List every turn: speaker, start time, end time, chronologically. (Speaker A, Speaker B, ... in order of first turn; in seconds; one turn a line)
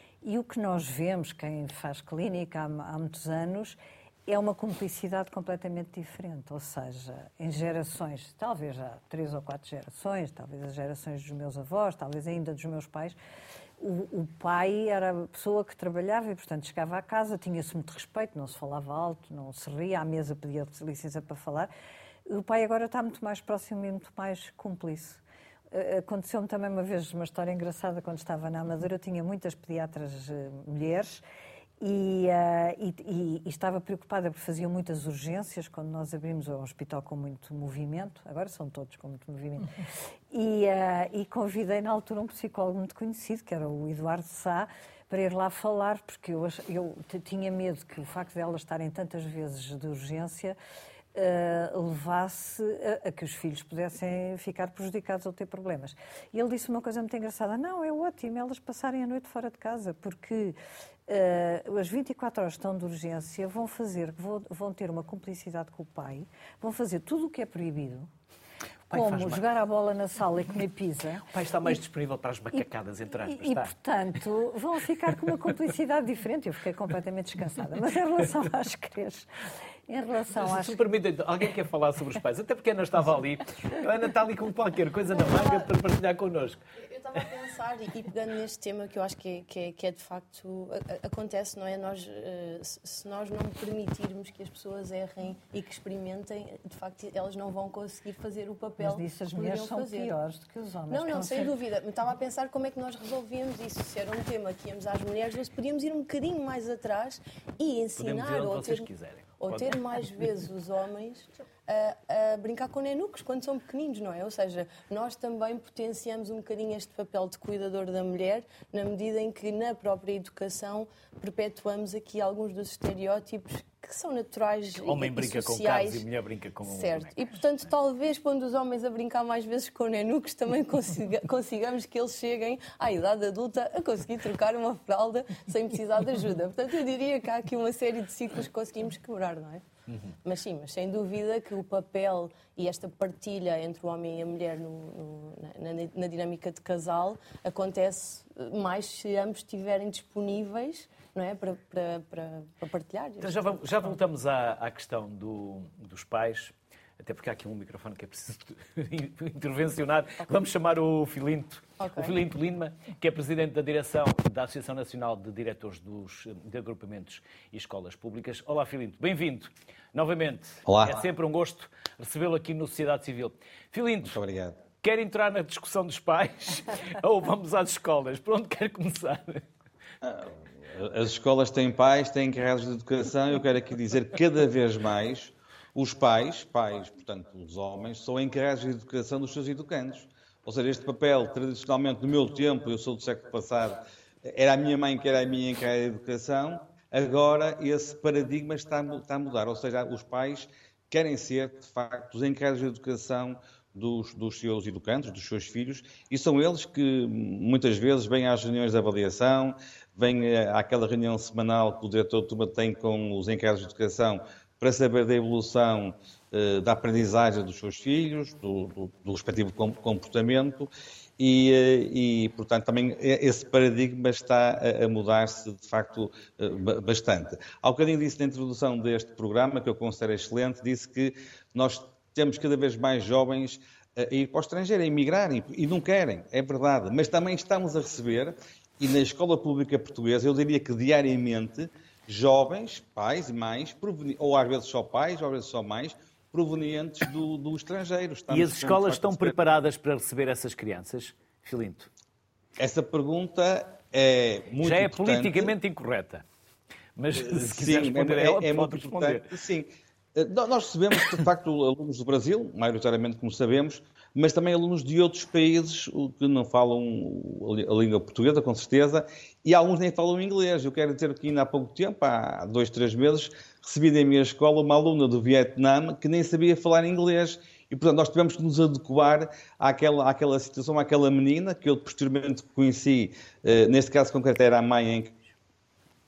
Speaker A: 0.2-13.2
Speaker A: 13.8-21.7
Speaker A: 22.3-31.2
Speaker A: 31.8-39.7
Speaker A: 40.3-50.6
Speaker A: 51.1-60.6
Speaker A: 61.1-68.1
Speaker B: 68.9-69.4
Speaker A: 68.9-71.3
Speaker B: 71.3-73.7
Speaker A: 73.3-79.2
Speaker A: 79.9-80.7
Speaker B: 80.3-86.6
Speaker C: 86.8-100.2
Speaker A: 98.8-101.5
Speaker C: 100.9-108.9
Speaker B: 108.0-109.8
Speaker C: 109.4-126.0
Speaker B: 124.8-127.3
Speaker C: 126.6-139.6
Speaker C: 140.2-153.9
Speaker B: 153.2-174.2
Speaker C: 161.8-162.1
Speaker D: 170.7-171.0
Speaker D: 174.0-174.6
Speaker B: 174.8-179.4
Speaker D: 180.0-249.3
Speaker B: 248.3-251.9
Speaker D: 252.6-255.5
Speaker B: 254.6-256.2
Speaker B: 257.0-259.2
Speaker D: 257.1-285.1